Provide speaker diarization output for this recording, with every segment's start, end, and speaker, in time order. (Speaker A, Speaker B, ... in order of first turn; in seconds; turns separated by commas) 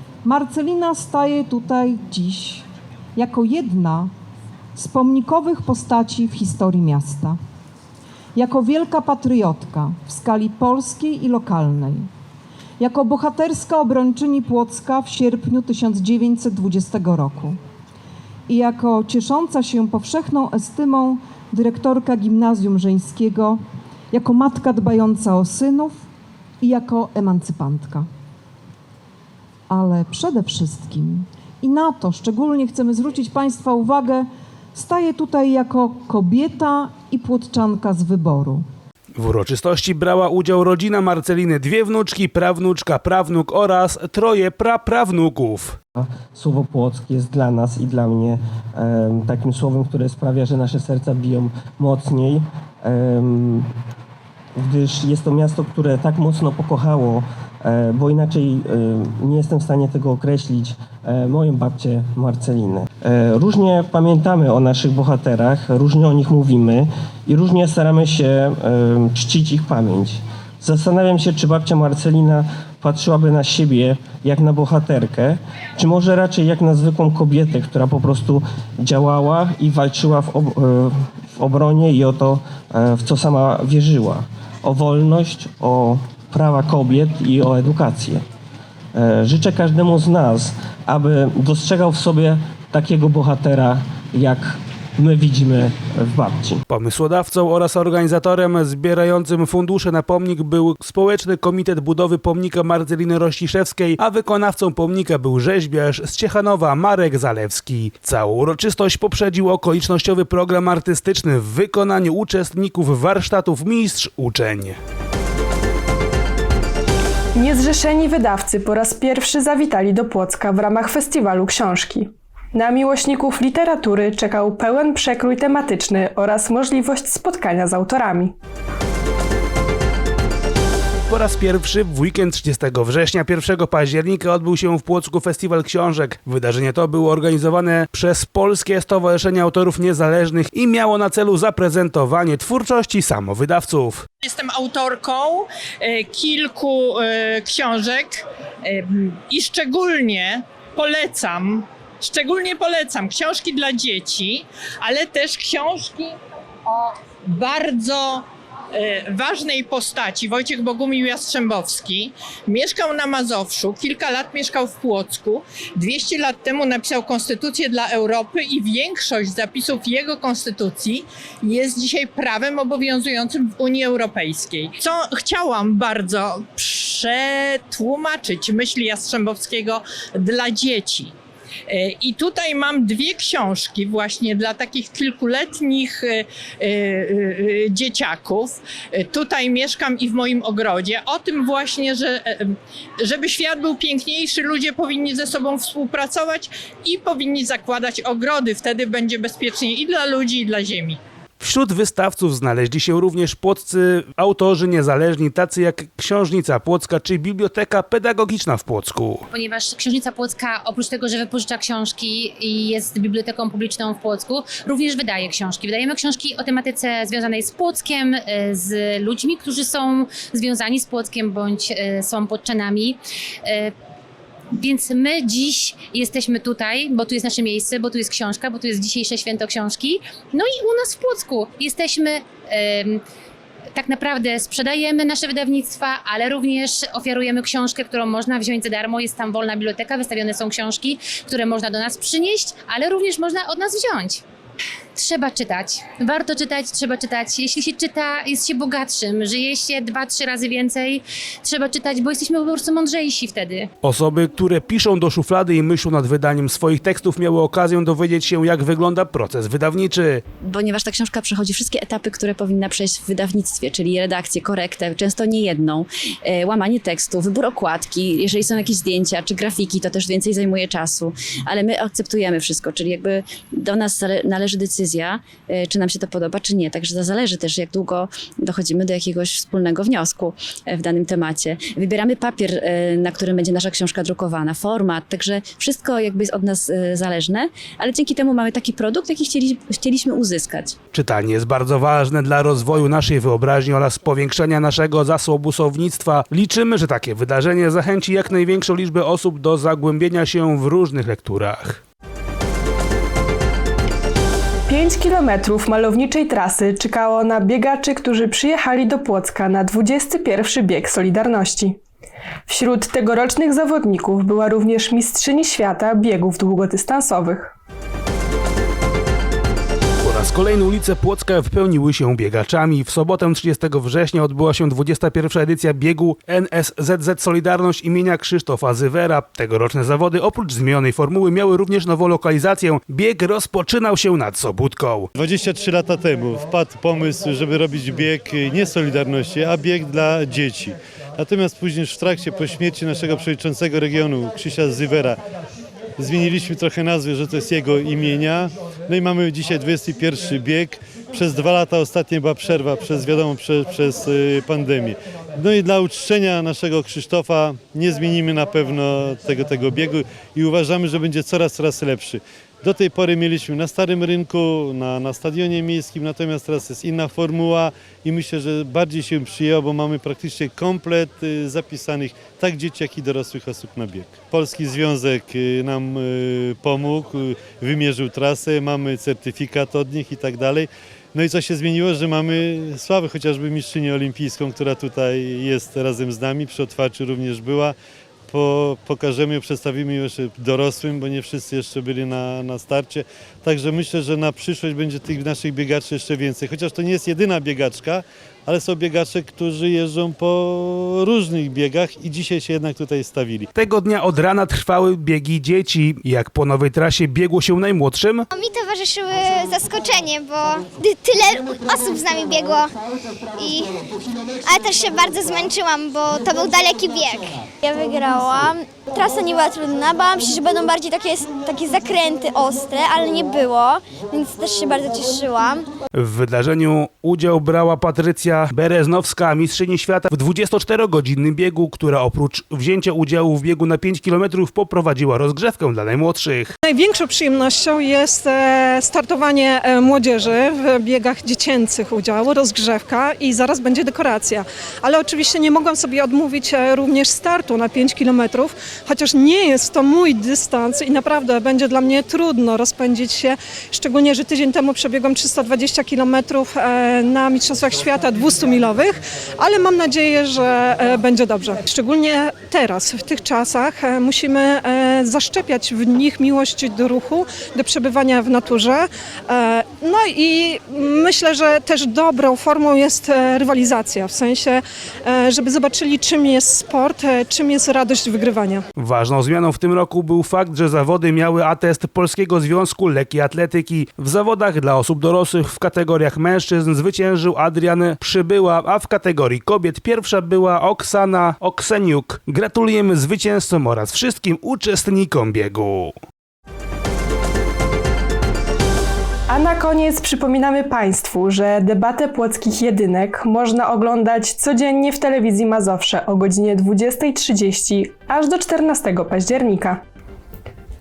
Speaker A: 0.2-2.6, Speaker A: 3.2-4.1, Speaker A: 4.8-7.4, Speaker A: 8.3-12.1, Speaker A: 12.8-17.6, Speaker A: 18.5-23.6, Speaker A: 24.1-26.1, Speaker A: 26.6-28.1, Speaker A: 29.7-38.6, Speaker B: 39.1-45.8, Speaker C: 46.0-53.7, Speaker C: 54.6-88.2, Speaker C: 89.0-96.6, Speaker B: 96.7-114.8, Speaker D: 117.3-128.3, Speaker B: 131.1-144.1, Speaker E: 144.2-145.4, Speaker E: 146.0-146.8, Speaker E: 147.4-148.2, Speaker E: 149.3-156.1, Speaker E: 157.3-158.2, Speaker E: 159.2-181.1, Speaker E: 181.7-192.5, Speaker E: 193.1-201.0, Speaker B: 201.4-209.2, Speaker F: 209.3-223.7, Speaker F: 224.6-233.0, Speaker F: 233.8-244.2, Speaker F: 245.0-253.7, Speaker B: 253.8-260.2, Speaker G: 260.4-290.8, Speaker B: 290.9-301.8, Speaker D: 304.7-311.8, Speaker D: 312.5-317.5, Speaker B: 320.0-335.1, Speaker H: 335.2-345.2, Speaker H: 346.0-387.7, Speaker H: 388.3-403.5, Speaker B: 403.6-408.2, Speaker I: 408.4-412.7, Speaker I: 414.5-418.5, Speaker I: 419.0-425.5, Speaker B: 425.9-436.5, Speaker J: 436.6-478.6, Speaker B: 478.8-495.9, Speaker D: 499.3-509.8